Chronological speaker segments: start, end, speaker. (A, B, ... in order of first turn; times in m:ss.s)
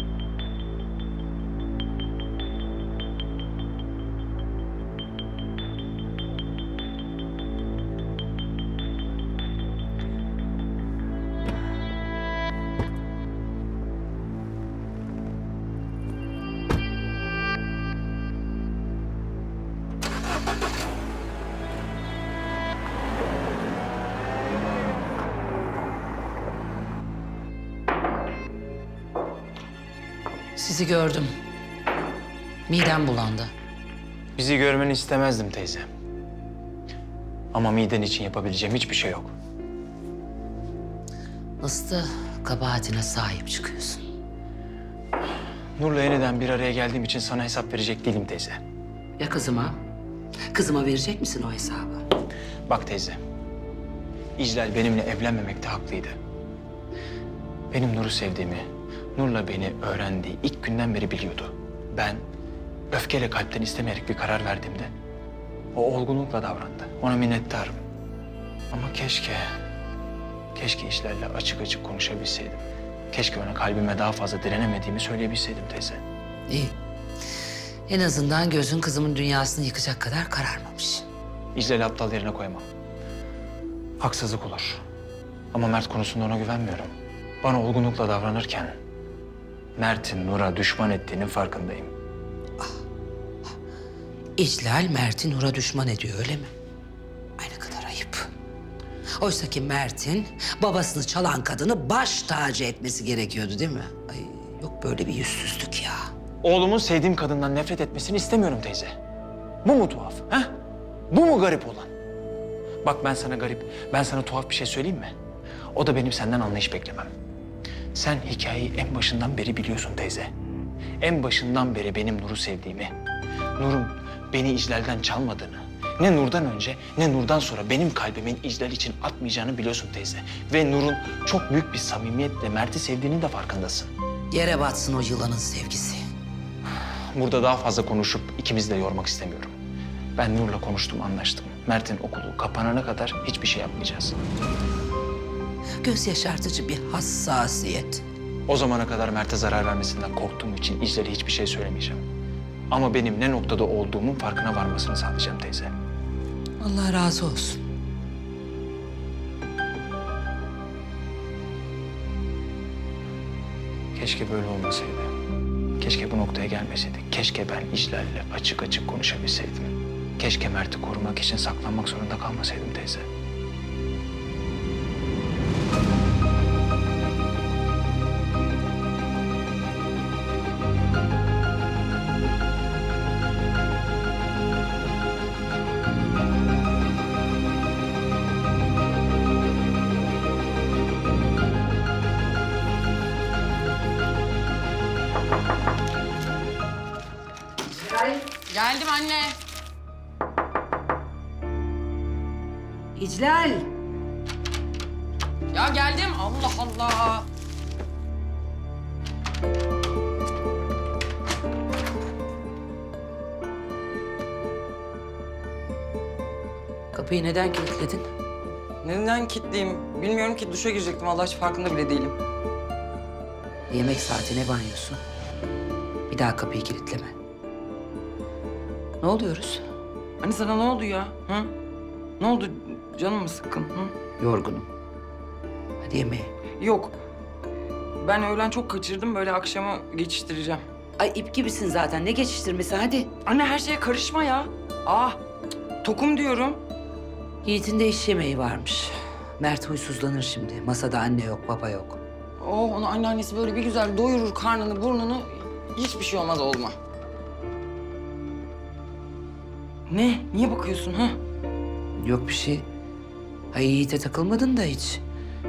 0:30.6-0:31.3 A
0:32.7-0:33.5 A
0:34.4-0:35.9 B
0:37.5-0:39.3 B
0:41.6-0:44.0 A
0:45.8-0:48.6 B
0:49.2-0:49.8 A
0:50.5-0:52.0 A
0:52.7-0:53.2 B
0:54.4-0:56.2 B
0:57.7-1:02.2 B
1:02.9-1:04.9 B
1:05.7-1:07.8 B
1:08.7-1:09.5 B
1:10.5-1:16.0 B
1:16.5-1:16.7 A
1:17.9-1:21.0 A
1:21.5-1:22.6 B
1:24.0-1:24.8 B
1:25.5-1:26.9 B
1:27.4-1:28.7 B
1:29.8-1:31.9 B
1:34.4-1:36.5 A
1:37.4-1:38.3 A
1:39.2-1:46.1 A
1:46.4-1:48.9 B
1:49.6-1:50.5 B
1:51.1-1:51.9 B
1:52.8-1:55.1 B
1:55.7-1:57.1 B
1:57.9-2:00.3 B
2:01.0-2:02.9 B
2:03.6-2:13.9 B
2:14.3-2:16.0 A
2:17.1-2:19.6 B
2:20.2-2:24.2 B
2:25.8-2:28.0 A
2:28.5-2:32.0 B
2:32.7-2:35.7 B
2:36.6-2:37.6 A
2:43.9-2:45.1 B
2:45.8-2:53.0 B
3:17.7-3:18.2 A
3:18.5-3:19.3 C
3:23.0-3:23.7 A
3:25.5-3:27.3 C
3:36.9-3:38.1 A
3:38.8-3:42.2 C
3:43.7-3:45.0 A
3:46.1-3:47.1 A
3:49.0-3:49.6 A
3:50.2-3:51.5 C
3:52.2-3:53.9 C
3:54.2-3:54.7 A
3:55.8-3:56.3 A
3:56.6-3:57.0 C
3:58.0-4:00.6 C
4:01.0-4:03.1 A
4:03.2-4:05.2 C
4:05.8-4:06.6 C
4:07.4-4:12.0 A
4:12.4-4:16.8 C
4:19.9-4:21.2 C
4:22.0-4:22.7 A
4:23.5-4:25.0 A